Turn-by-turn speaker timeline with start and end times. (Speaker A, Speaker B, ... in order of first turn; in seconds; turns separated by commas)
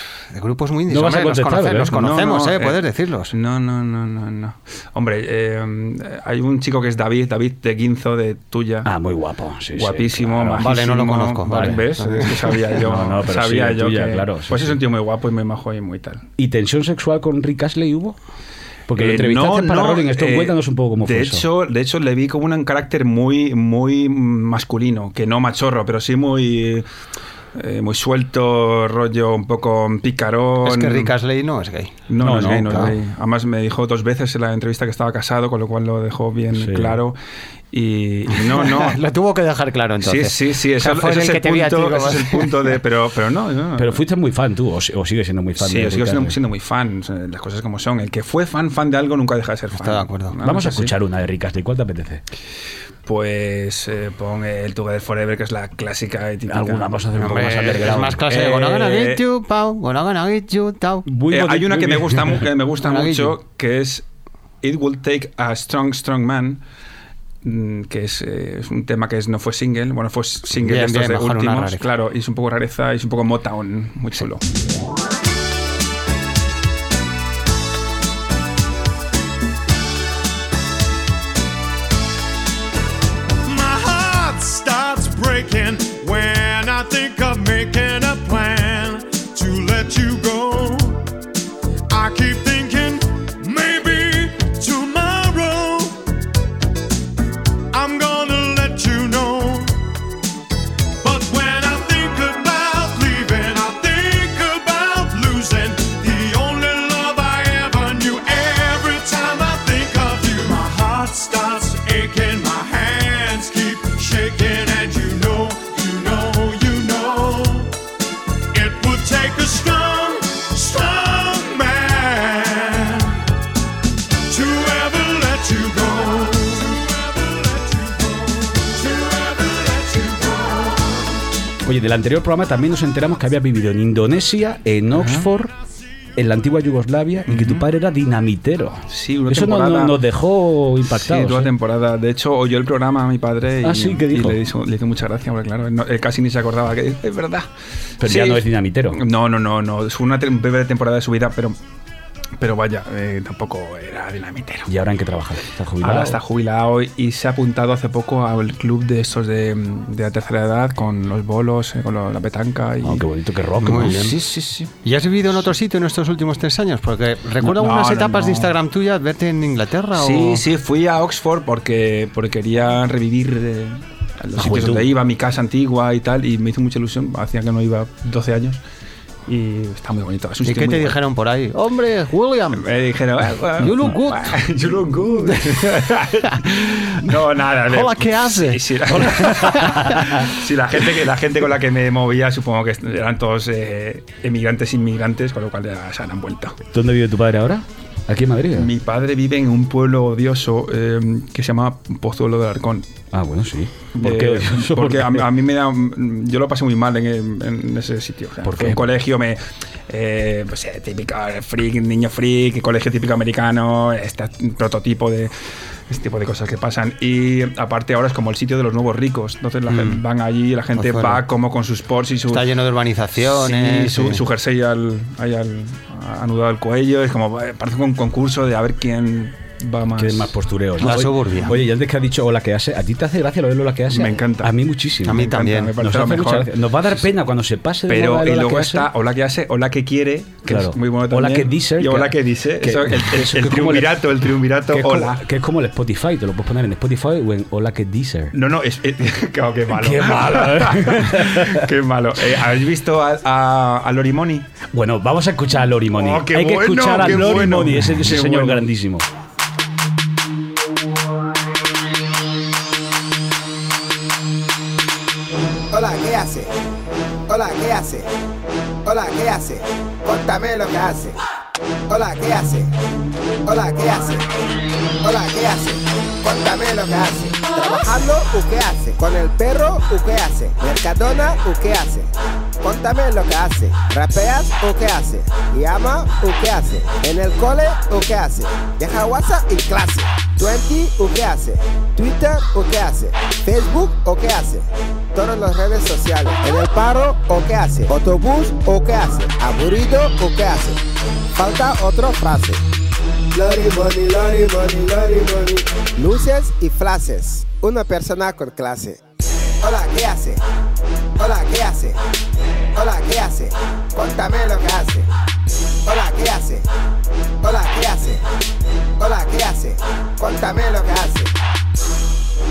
Speaker A: 0.3-3.3, Speaker B: 0.9-2.0, Speaker C: 1.9-8.9, Speaker B: 8.8-10.7, Speaker C: 9.8-16.2, Speaker A: 10.6-12.6, Speaker B: 12.8-14.8, Speaker B: 16.4-18.2, Speaker B: 18.9-21.4, Speaker C: 18.9-26.9, Speaker C: 27.5-31.1, Speaker A: 30.6-32.9, Speaker C: 32.1-37.2, Speaker B: 32.2-32.9, Speaker B: 36.5-37.0, Speaker C: 37.7-39.0, Speaker A: 38.3-42.8, Speaker C: 40.0-44.0, Speaker B: 43.8-46.3, Speaker C: 45.6-50.9, Speaker A: 49.7-50.3, Speaker B: 50.4-52.2, Speaker C: 53.0-59.2, Speaker B: 56.5-58.2, Speaker A: 57.2-61.1, Speaker B: 61.1-62.4, Speaker C: 61.3-64.0, Speaker A: 62.8-63.4, Speaker C: 64.6-66.6, Speaker C: 67.4-74.4, Speaker A: 70.6-71.8, Speaker D: 83.4-91.1, Speaker D: 91.9-96.0, Speaker D: 97.7-99.8, Speaker D: 101.0-117.7, Speaker D: 118.5-123.2, Speaker D: 124.3-131.1, Speaker B: 131.6-135.5, Speaker C: 134.9-135.3, Speaker B: 136.2-141.5, Speaker C: 137.3-137.7, Speaker C: 138.9-140.0, Speaker C: 140.9-147.5, Speaker B: 143.6-144.4, Speaker B: 148.0-149.0, Speaker C: 148.0-151.6, Speaker C: 152.4-154.7, Speaker B: 154.7-156.2, Speaker C: 155.8-163.1, Speaker B: 162.8-164.1, Speaker A: 163.6-164.2, Speaker C: 163.7-164.7, Speaker A: 164.8-170.4, Speaker C: 167.4-168.5, Speaker C: 169.9-178.6, Speaker B: 174.4-174.9, Speaker C: 179.3-181.0, Speaker A: 180.4-182.7, Speaker C: 182.5-196.6, Speaker A: 183.6-184.4, Speaker B: 183.7-183.9, Speaker A: 185.2-185.7, Speaker A: 187.7-189.8, Speaker B: 189.0-190.2, Speaker B: 196.7-198.7, Speaker C: 198.6-202.8, Speaker B: 203.1-205.2, Speaker C: 203.9-215.3, Speaker B: 208.4-208.8, Speaker C: 215.9-222.5, Speaker A: 219.7-220.0, Speaker A: 220.8-221.2, Speaker A: 222.3-224.2, Speaker C: 223.2-230.3, Speaker B: 230.0-238.9, Speaker A: 230.8-231.6, Speaker C: 233.9-234.5, Speaker A: 235.0-235.8, Speaker C: 235.1-236.5, Speaker C: 237.9-245.2, Speaker B: 240.4-244.0, Speaker B: 244.7-248.3, Speaker C: 248.3-254.5, Speaker B: 249.7-251.6, Speaker B: 254.7-259.1, Speaker C: 255.9-258.6, Speaker E: 265.7-266.5, Speaker E: 267.3-268.1, Speaker E: 268.8-271.2, Speaker E: 271.9-272.7, Speaker E: 273.4-274.2, Speaker E: 275.0-300.8, Speaker E: 301.3-302.6, Speaker E: 303.3-309.0, Speaker E: 309.6-310.4, Speaker E: 311.2-312.0, Speaker E: 312.7-315.1, Speaker E: 315.9-316.6, Speaker E: 317.4-318.2, Speaker E: 319.0-321.3